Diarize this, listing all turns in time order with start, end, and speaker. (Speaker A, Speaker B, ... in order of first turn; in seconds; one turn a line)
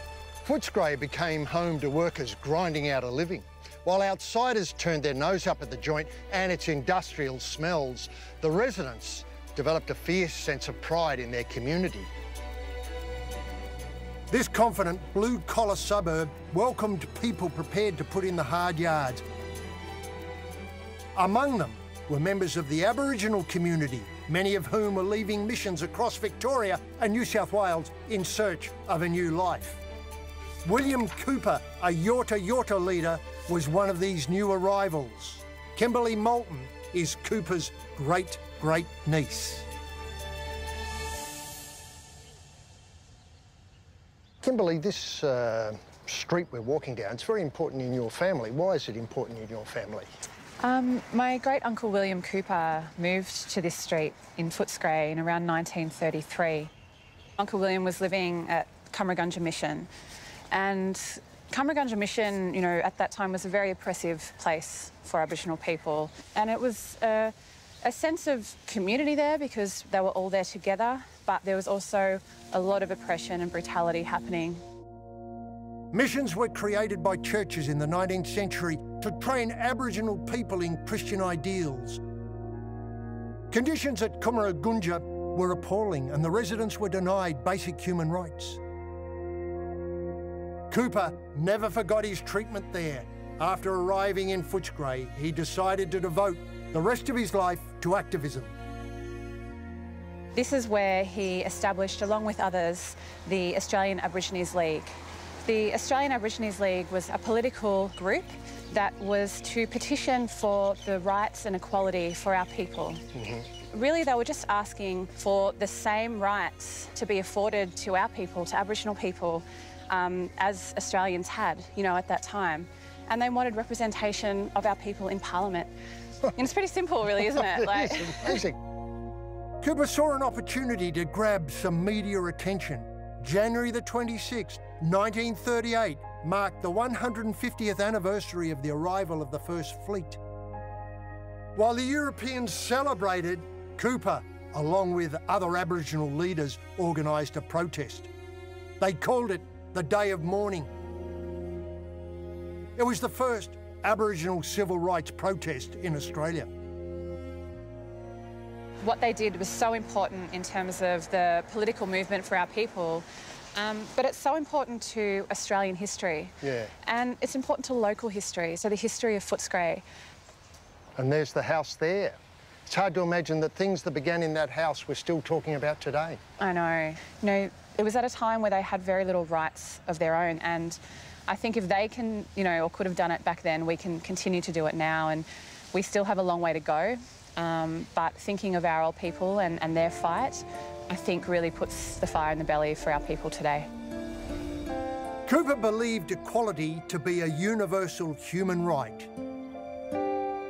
Speaker A: 0.5-12.1
Speaker B: 14.3-19.2
Speaker B: 21.2-29.8
Speaker B: 30.6-39.7
Speaker A: 44.4-50.1
Speaker C: 50.6-56.7
Speaker C: 57.4-59.9
Speaker C: 60.5-74.6
Speaker B: 75.9-82.0
Speaker B: 83.5-88.6
Speaker B: 90.7-98.5
Speaker C: 100.3-104.9
Speaker C: 105.5-113.0
Speaker A: 113.2-113.5
Speaker C: 113.7-125.7
Speaker C: 126.3-128.4
Speaker A: 127.6-128.6
Speaker B: 129.6-140.2
Speaker B: 141.6-148.1
Speaker B: 148.8-150.7
Speaker B: 152.8-156.5
Speaker C: 158.8-166.3
Speaker A: 166.4-166.7
Speaker C: 166.9-169.8
Speaker A: 171.0-176.2
Speaker C: 176.4-193.7
Speaker B: 195.3-199.1